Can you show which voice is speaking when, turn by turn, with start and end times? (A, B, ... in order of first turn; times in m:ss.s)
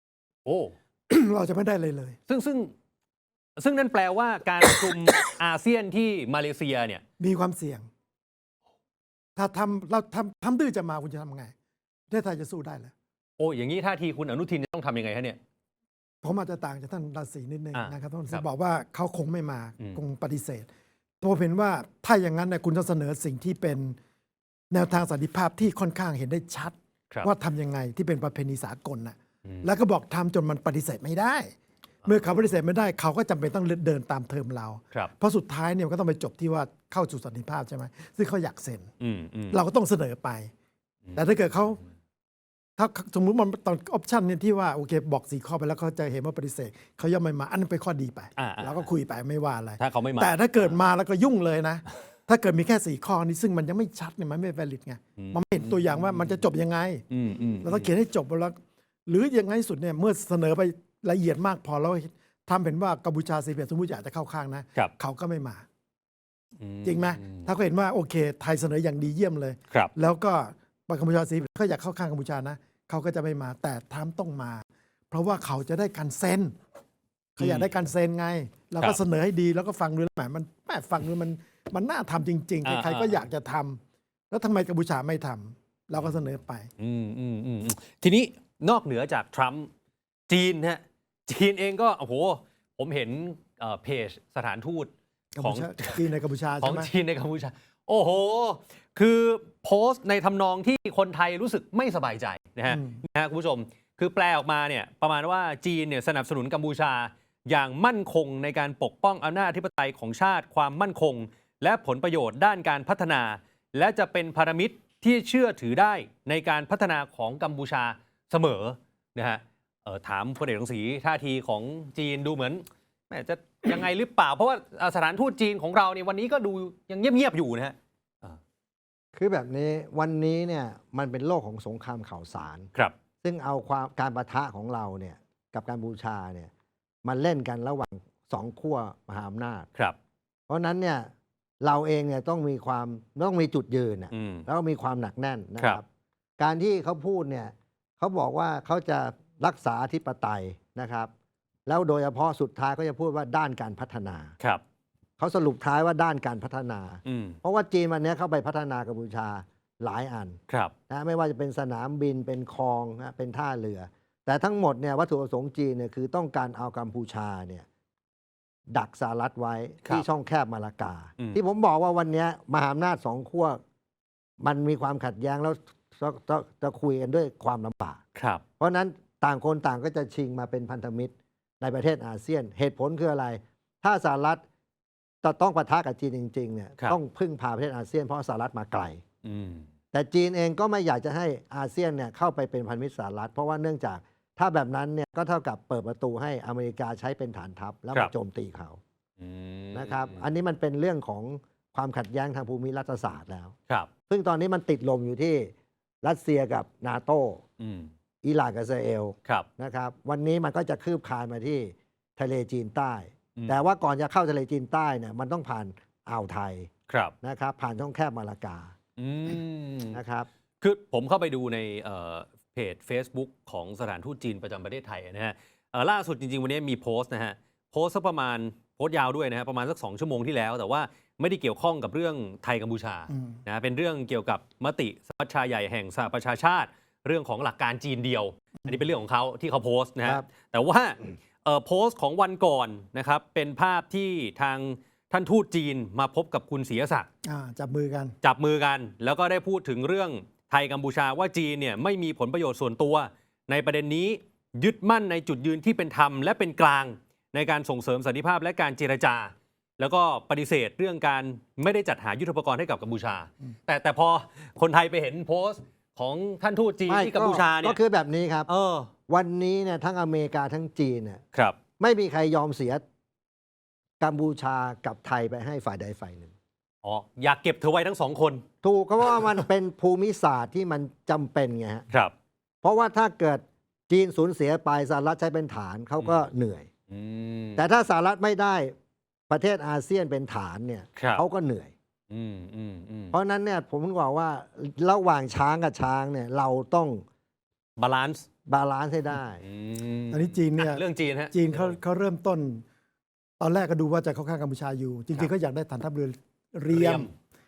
0:00.4-0:00.7 A
0:01.1-0:02.2 B
0:02.3-0:02.7 A
0:03.6-0:07.0 A
0:07.2-0:07.9 B
0:09.4-0:11.5 B
0:12.1-0:12.9 B
0:13.4-0:15.4 A
0:16.2-0:20.7 B
0:17.7-0:18.4 A
0:21.2-0:24.0 B
0:24.7-0:31.5 B
0:32.0-0:38.9 B
0:39.0-0:39.6 A
0:39.5-0:40.5 B
0:41.1-0:41.8 B
0:42.8-0:57.0 B
0:48.4-0:48.9 A
0:49.8-0:50.7 A
0:55.2-0:56.1 A
0:57.1-0:57.9 A
0:57.6-1:05.6 B
1:06.6-1:07.5 A
1:06.8-1:16.5 B
1:17.4-1:26.7 B
1:17.4-1:17.7 A
1:22.6-1:23.2 A
1:25.9-1:26.2 A
1:26.8-1:29.7 A
1:30.3-1:34.9 A
1:35.4-1:36.9 B
1:35.4-1:36.0 A
1:36.6-2:08.4 A
1:42.7-1:43.0 B
2:09.1-2:12.7 C
2:13.2-2:16.5 C
2:17.0-2:19.7 C
2:20.5-2:21.1 C
2:21.6-2:25.8 C
2:24.1-2:24.4 A
2:26.4-2:31.1 C
2:31.6-2:34.3 C
2:35.2-2:47.6 C
2:37.0-2:37.4 A
2:40.5-2:40.7 A
2:48.7-2:53.6 C
2:54.4-2:58.0 C
2:58.1-2:58.4 A
2:58.6-3:04.4 C
3:05.2-3:09.0 C
3:09.2-3:09.7 A
3:09.9-3:18.8 C
3:19.2-3:20.2 A
3:19.7-3:23.5 C
3:24.1-3:27.4 C
3:27.6-3:27.9 A
3:28.2-3:36.7 C
3:36.9-3:37.1 A
3:37.2-3:38.7 C
3:39.0-3:40.0 A
3:39.9-3:40.3 C
3:40.6-4:07.1 A
4:07.2-4:08.1 B
4:08.2-4:27.8 A
4:26.9-4:28.5 C
4:28.5-4:28.9 A
4:29.1-4:31.2 C
4:31.8-4:32.8 C
4:34.0-4:36.3 C
4:36.8-4:38.4 A
4:38.6-4:41.9 C
4:42.6-4:46.7 C
4:46.0-4:46.2 A
4:46.9-4:47.6 A
4:47.6-4:48.8 C
4:49.3-4:51.7 C
4:51.0-4:51.2 A
4:52.1-4:53.1 A
4:53.1-4:57.0 C
4:57.8-4:58.2 A
4:58.5-4:59.4 C
4:59.4-5:01.8 A
5:00.1-5:02.6 B
5:03.4-5:07.1 B
5:06.7-5:07.1 A